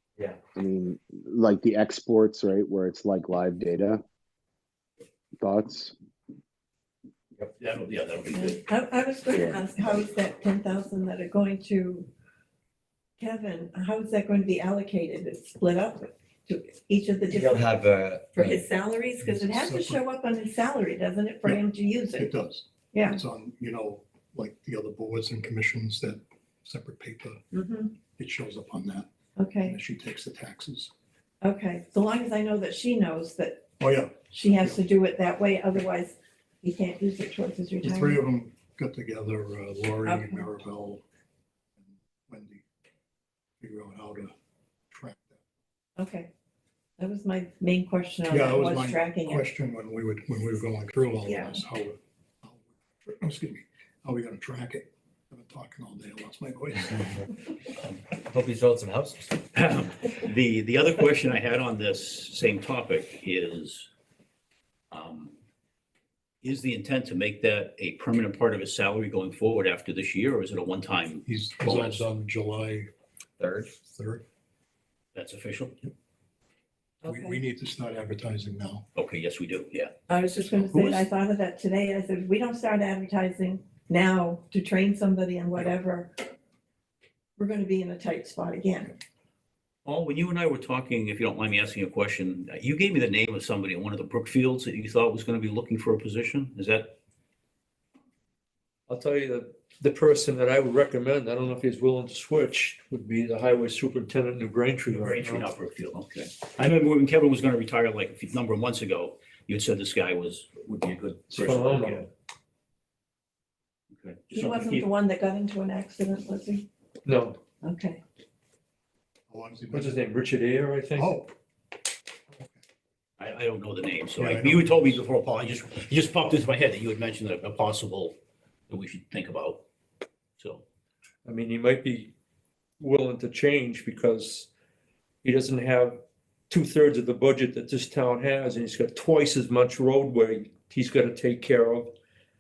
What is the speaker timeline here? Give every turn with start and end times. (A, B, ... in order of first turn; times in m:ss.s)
0:00.5-0:04.0 A
0:05.4-0:05.9 A
0:07.6-0:08.6 B
0:08.3-0:12.1 C
0:09.3-0:09.6 A
0:13.2-0:22.3 C
0:17.3-0:18.6 D
0:19.2-0:20.0 E
0:21.4-0:27.4 E
0:22.9-0:23.2 C
0:27.5-0:27.9 C
0:28.1-0:29.1 E
0:29.4-0:29.8 C
0:29.6-0:30.9 E
0:31.4-0:33.7 C
0:33.8-0:34.8 E
0:34.3-0:38.2 C
0:37.8-0:41.0 E
0:40.0-0:40.4 C
0:41.8-0:42.6 E
0:43.6-0:44.3 E
0:44.9-0:45.4 E
0:46.0-0:46.3 C
0:47.0-0:49.4 C
0:48.3-0:57.2 E
0:51.2-0:51.6 C
0:58.0-0:59.3 D
0:59.5-1:03.9 B
1:04.9-1:05.3 B
1:06.4-1:12.0 B
1:11.2-1:12.9 E
1:13.4-1:13.7 D
1:13.9-1:14.2 E
1:15.1-1:15.9 B
1:17.0-1:17.4 C
1:17.0-1:18.8 E
1:19.0-1:19.9 B
1:20.1-1:26.1 C
1:20.5-1:21.0 B
1:27.4-1:28.9 C
1:29.8-1:37.0 B
1:38.9-1:45.4 F
1:44.9-1:52.1 B
1:51.3-1:52.1 F
1:53.9-1:54.9 B
1:54.3-1:56.6 C
1:57.0-1:57.4 F
1:57.6-1:58.0 C
1:59.3-2:00.0 E
1:59.7-2:01.2 F
2:01.0-2:01.3 E
2:02.3-2:02.6 E
2:03.2-2:08.1 B
2:04.2-2:05.0 E
2:08.7-2:09.6 B
2:11.2-2:12.1 F
2:12.8-2:14.5 F
2:15.2-2:21.9 F